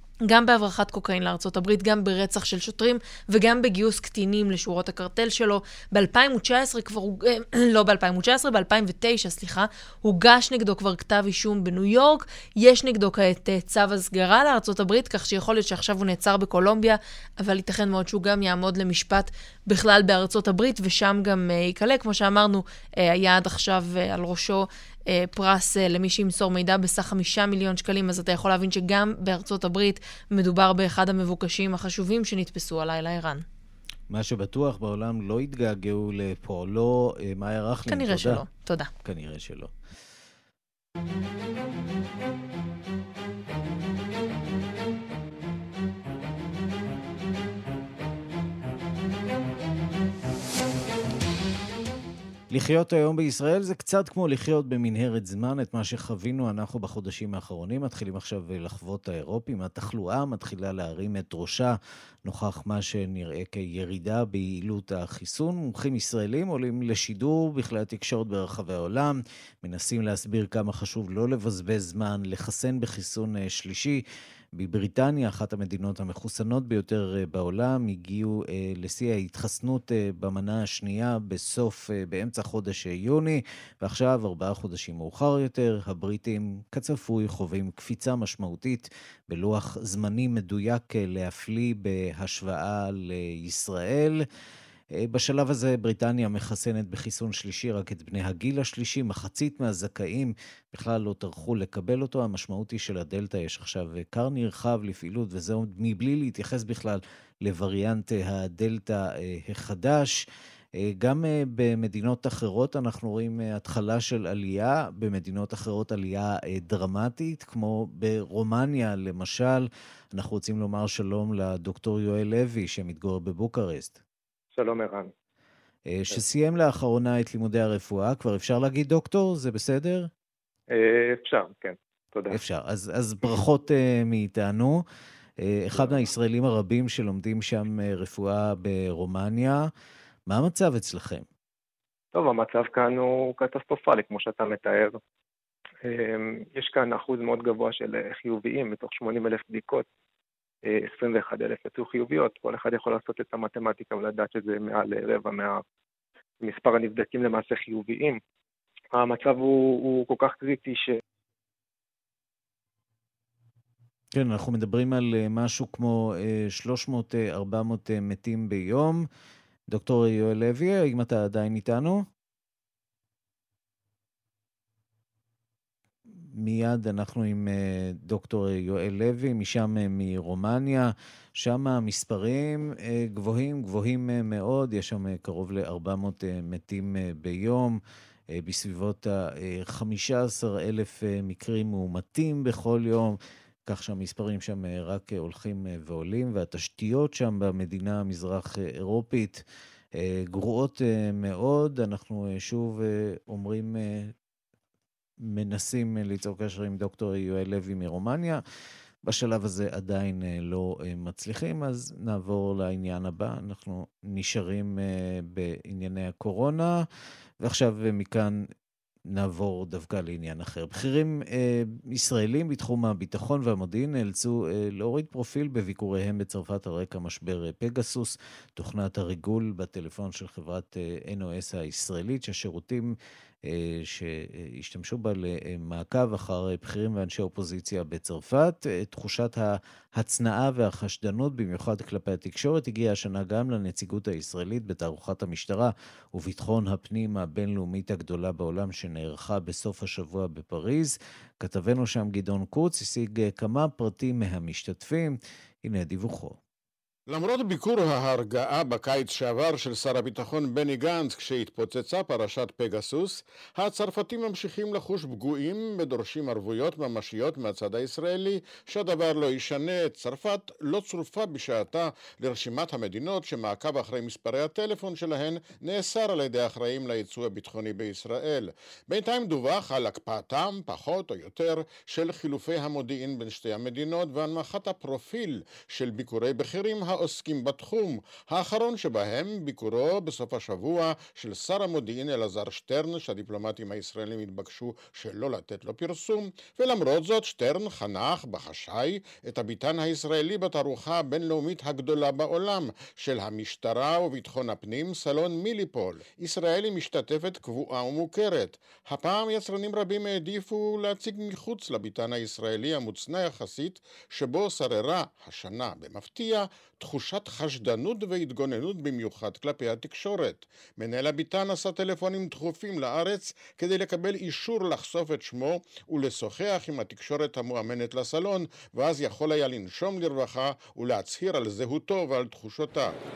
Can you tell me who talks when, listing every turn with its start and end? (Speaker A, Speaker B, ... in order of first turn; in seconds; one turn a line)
Speaker A: 0.2-33.4
Speaker B: 34.1-38.4
Speaker A: 37.9-38.9
Speaker B: 39.0-39.7
Speaker B: 52.5-74.0
Speaker B: 74.5-94.2
Speaker B: 95.0-110.1
Speaker B: 110.8-124.0
Speaker C: 124.5-125.1
Speaker B: 125.9-130.1
Speaker C: 130.7-132.4
Speaker B: 132.3-134.8
Speaker B: 135.4-139.6
Speaker C: 135.8-136.0
Speaker B: 140.3-141.3
Speaker C: 142.1-145.0
Speaker C: 145.8-149.8
Speaker C: 150.7-155.6
Speaker C: 156.4-158.2
Speaker C: 158.9-160.9
Speaker B: 164.1-169.0
Speaker B: 169.7-172.1
Speaker B: 176.4-187.8
Speaker B: 188.3-199.4
Speaker B: 200.0-204.1
Speaker B: 205.2-208.4
Speaker B: 209.0-216.8
Speaker B: 217.4-218.4
Speaker B: 219.1-232.9
Speaker B: 233.5-256.4
Speaker D: 257.1-333.0